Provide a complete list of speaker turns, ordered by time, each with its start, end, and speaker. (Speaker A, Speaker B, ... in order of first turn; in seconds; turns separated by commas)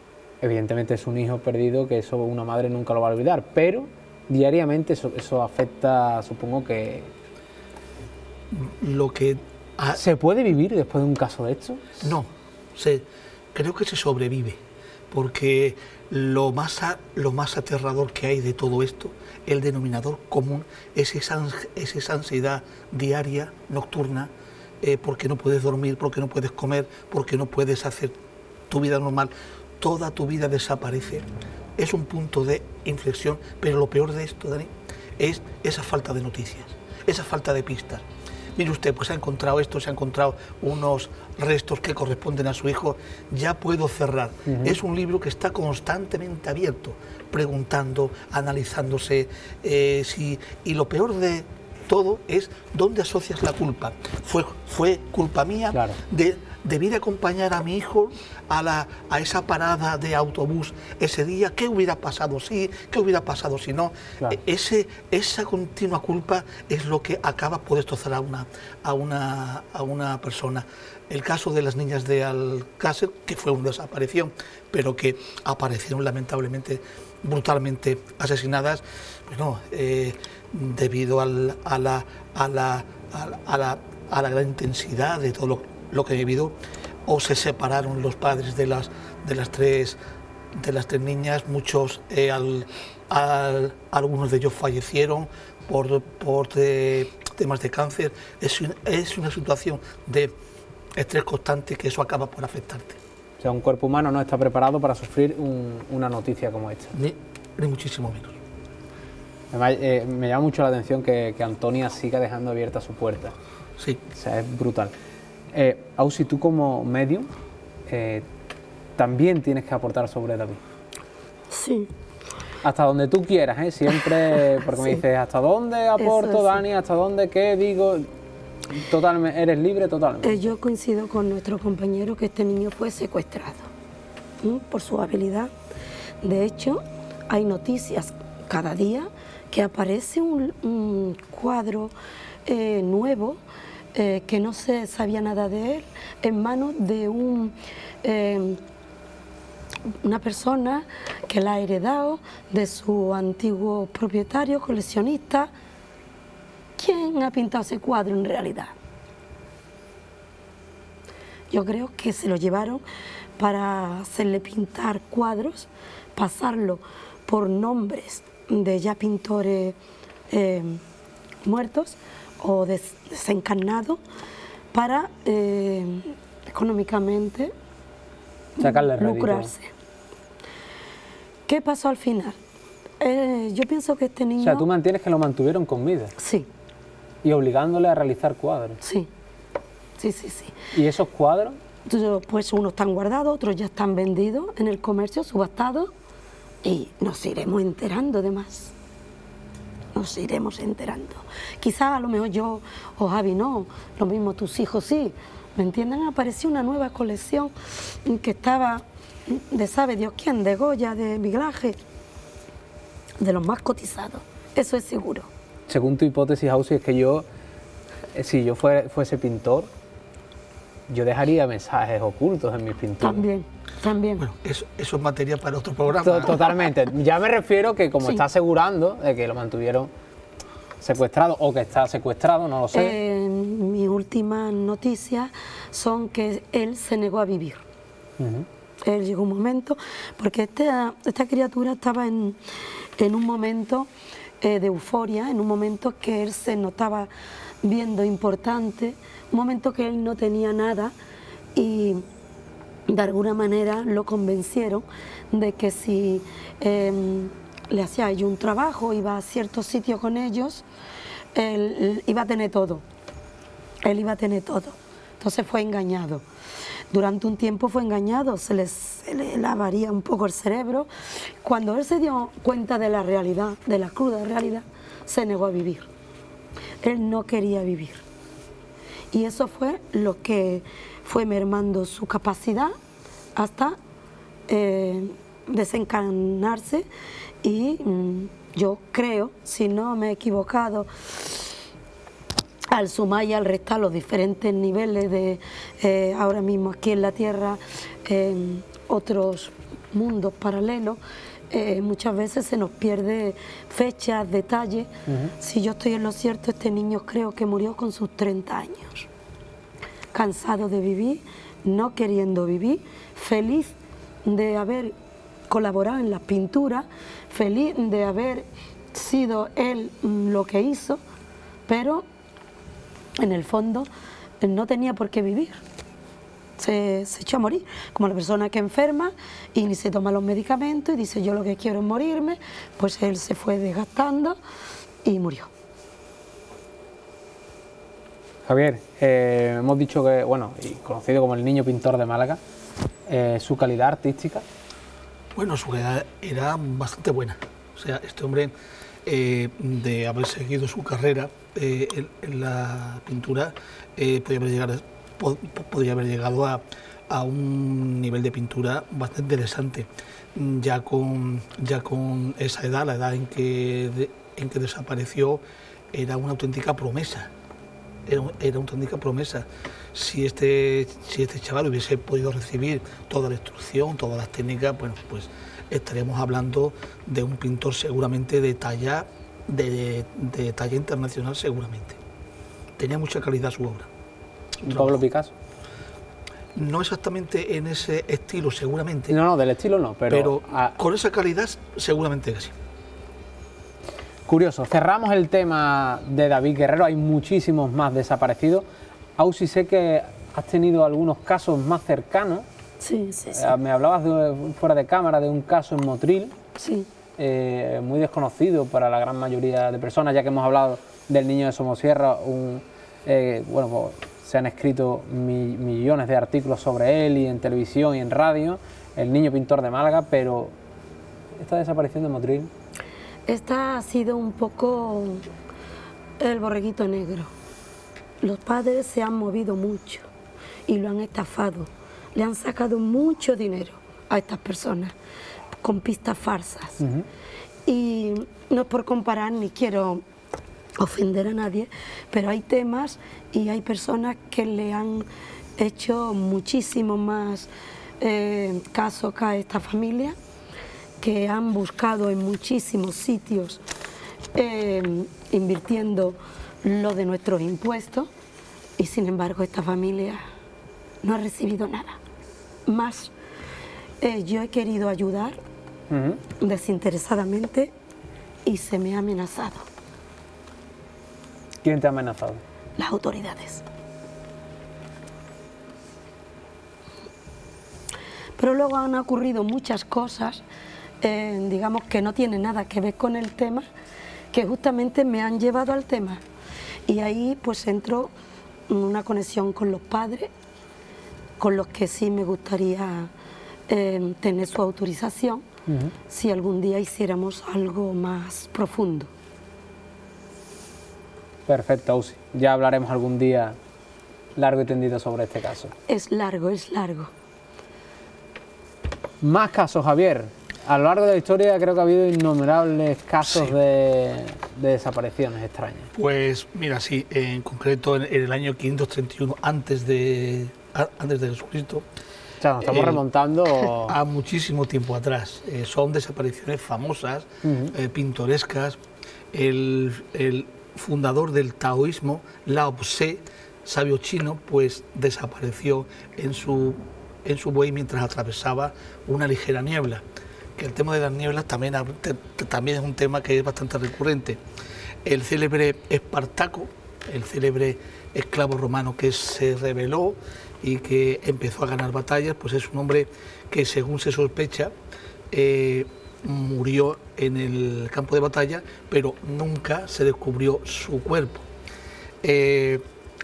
Speaker A: 0.4-7.1, Speaker B: 8.5-10.0, Speaker A: 9.9-12.0, Speaker B: 12.0-14.6, Speaker B: 15.1-24.3, Speaker B: 24.8-28.1, Speaker B: 28.7-31.3, Speaker B: 31.8-38.0, Speaker B: 38.6-86.5, Speaker A: 44.5-44.8, Speaker A: 55.7-56.0, Speaker B: 87.1-90.0, Speaker B: 90.6-100.3, Speaker B: 101.0-103.0, Speaker A: 103.4-106.9, Speaker B: 106.9-108.4, Speaker A: 109.5-113.3, Speaker A: 114.1-114.9, Speaker A: 115.5-117.3, Speaker A: 117.9-118.3, Speaker A: 119.0-120.6, Speaker C: 121.5-121.9, Speaker A: 122.6-128.1, Speaker C: 124.7-125.0, Speaker C: 126.0-126.6, Speaker A: 128.7-130.5, Speaker C: 130.2-133.7, Speaker C: 134.4-135.5, Speaker C: 136.2-141.9, Speaker C: 142.5-143.4, Speaker C: 143.9-148.6, Speaker C: 150.0-155.5, Speaker C: 156.8-158.8, Speaker C: 161.5-162.8, Speaker C: 163.4-169.8, Speaker C: 170.3-170.8, Speaker C: 171.4-174.0, Speaker C: 174.7-177.5, Speaker C: 178.6-179.7, Speaker A: 178.6-179.5, Speaker C: 181.5-182.4, Speaker C: 183.0-184.7, Speaker A: 184.4-186.1, Speaker C: 186.2-186.5, Speaker A: 187.2-188.8, Speaker C: 188.8-189.1, Speaker C: 190.0-190.6, Speaker A: 190.7-191.6, Speaker C: 191.8-195.9, Speaker C: 196.6-198.7, Speaker C: 199.9-211.8, Speaker C: 213.2-215.3, Speaker A: 215.7-217.2, Speaker A: 218.1-219.7, Speaker A: 220.9-223.2, Speaker C: 223.0-224.3, Speaker B: 224.2-226.6, Speaker A: 226.0-229.9, Speaker A: 230.8-233.0, Speaker C: 232.7-237.6, Speaker A: 238.2-238.5, Speaker C: 238.8-242.4, Speaker C: 243.0-243.9, Speaker C: 244.4-247.1, Speaker C: 247.6-250.9, Speaker C: 251.6-252.0, Speaker C: 252.9-260.6, Speaker C: 261.3-262.8, Speaker C: 263.8-266.2, Speaker C: 266.9-270.9, Speaker C: 271.4-275.9, Speaker C: 276.8-278.0, Speaker C: 279.1-282.7, Speaker C: 283.4-283.8, Speaker C: 284.5-286.9, Speaker C: 287.4-291.5, Speaker C: 292.7-309.1, Speaker A: 305.1-305.3, Speaker C: 310.1-314.9, Speaker C: 315.5-321.0, Speaker C: 321.7-322.1, Speaker C: 323.2-325.6, Speaker C: 326.6-334.4, Speaker C: 335.0-335.5, Speaker A: 338.5-342.4, Speaker A: 343.1-344.4, Speaker B: 345.4-348.5, Speaker B: 349.1-365.4, Speaker B: 365.9-367.3, Speaker B: 368.1-382.0, Speaker B: 382.8-383.9, Speaker B: 384.6-385.0, Speaker A: 384.7-385.3, Speaker B: 386.6-389.2, Speaker A: 389.1-390.8, Speaker B: 390.1-392.5, Speaker A: 394.3-398.6, Speaker A: 399.2-402.5, Speaker C: 402.8-403.5, Speaker A: 403.3-406.4, Speaker C: 406.6-406.9, Speaker A: 407.2-420.6, Speaker A: 421.4-422.5, Speaker C: 423.3-425.3, Speaker C: 426.2-427.3, Speaker C: 428.2-430.1, Speaker C: 430.7-434.9, Speaker C: 435.6-436.8, Speaker A: 436.8-437.1, Speaker C: 437.7-440.0, Speaker C: 440.8-450.2, Speaker C: 451.0-453.6, Speaker C: 454.3-458.1, Speaker C: 458.8-460.2, Speaker C: 461.0-462.0, Speaker C: 462.7-463.1, Speaker C: 464.0-465.4, Speaker A: 465.9-466.2, Speaker C: 466.4-467.7, Speaker C: 468.4-469.7, Speaker A: 471.6-472.4, Speaker C: 472.8-473.7, Speaker C: 478.4-480.4, Speaker C: 481.0-483.6, Speaker C: 484.3-486.2, Speaker C: 486.9-488.1, Speaker C: 488.7-490.3, Speaker C: 491.4-493.1, Speaker C: 493.7-495.4, Speaker A: 495.7-495.9, Speaker C: 496.1-499.1, Speaker A: 501.5-503.6, Speaker A: 504.4-505.7, Speaker C: 505.9-507.1, Speaker A: 509.2-515.9, Speaker B: 516.0-521.8, Speaker A: 522.4-524.0, Speaker B: 522.6-523.0, Speaker B: 523.8-528.8, Speaker A: 527.4-527.7, Speaker B: 529.3-540.0, Speaker B: 540.6-544.4, Speaker B: 545.0-554.7, Speaker B: 555.3-561.5, Speaker B: 562.2-562.8